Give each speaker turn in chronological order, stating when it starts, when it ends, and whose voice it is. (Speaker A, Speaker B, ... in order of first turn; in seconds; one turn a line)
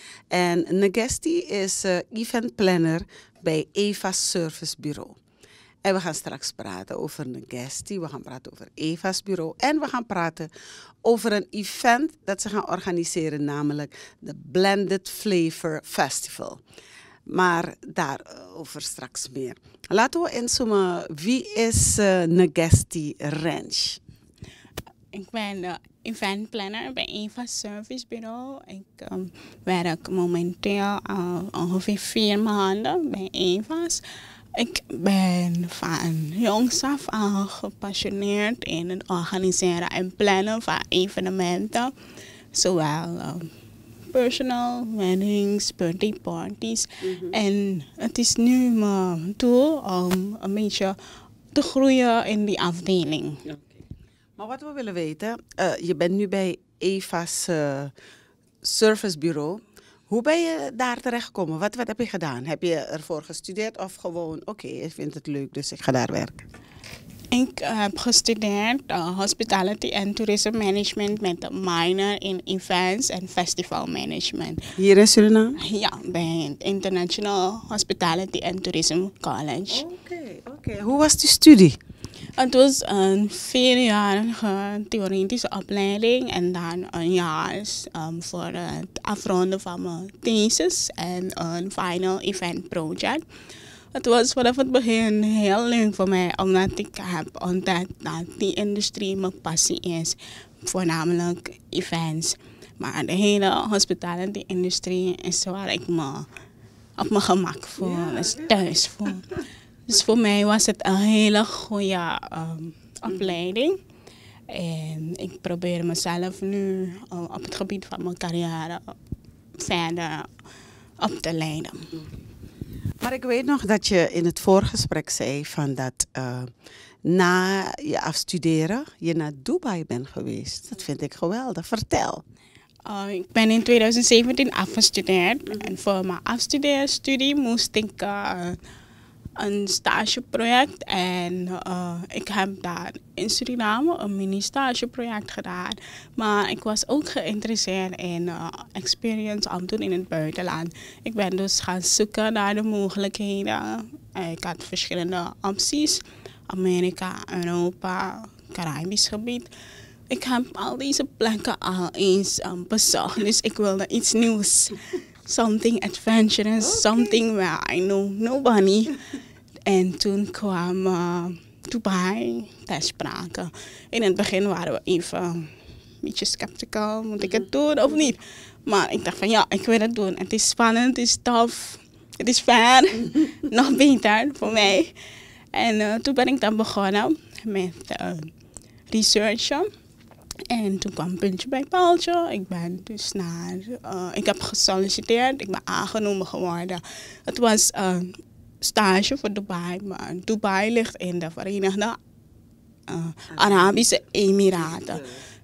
Speaker A: 0.3-5.2
Speaker A: 5.8-10.5
Speaker A: 11.0-16.6
Speaker A: 17.3-24.0
Speaker B: 25.1-41.9
Speaker B: 42.5-43.5
Speaker B: 44.1-51.0
Speaker A: 47.0-47.3
Speaker B: 51.5-53.4
Speaker A: 53.5-53.8
Speaker A: 54.4-57.9
Speaker A: 58.6-66.4
Speaker B: 67.3-74.6
Speaker A: 74.8-75.6
Speaker B: 75.6-79.8
Speaker A: 79.7-81.8
Speaker B: 82.4-93.2
Speaker B: 93.9-106.3
Speaker B: 107.0-109.3
Speaker A: 107.8-108.5
Speaker B: 109.9-113.8
Speaker B: 114.5-119.0
Speaker B: 119.6-120.3
Speaker B: 121.0-121.9
Speaker A: 123.0-126.5
Speaker A: 127.0-132.2
Speaker B: 132.9-138.6
Speaker A: 135.5-135.8
Speaker B: 139.4-159.5
Speaker B: 160.1-169.0
Speaker A: 166.6-167.2
Speaker B: 169.7-184.9
Speaker B: 185.5-188.3
Speaker B: 188.9-189.7
Speaker B: 190.5-202.0
Speaker B: 202.9-205.2
Speaker A: 203.3-203.8
Speaker A: 204.6-205.2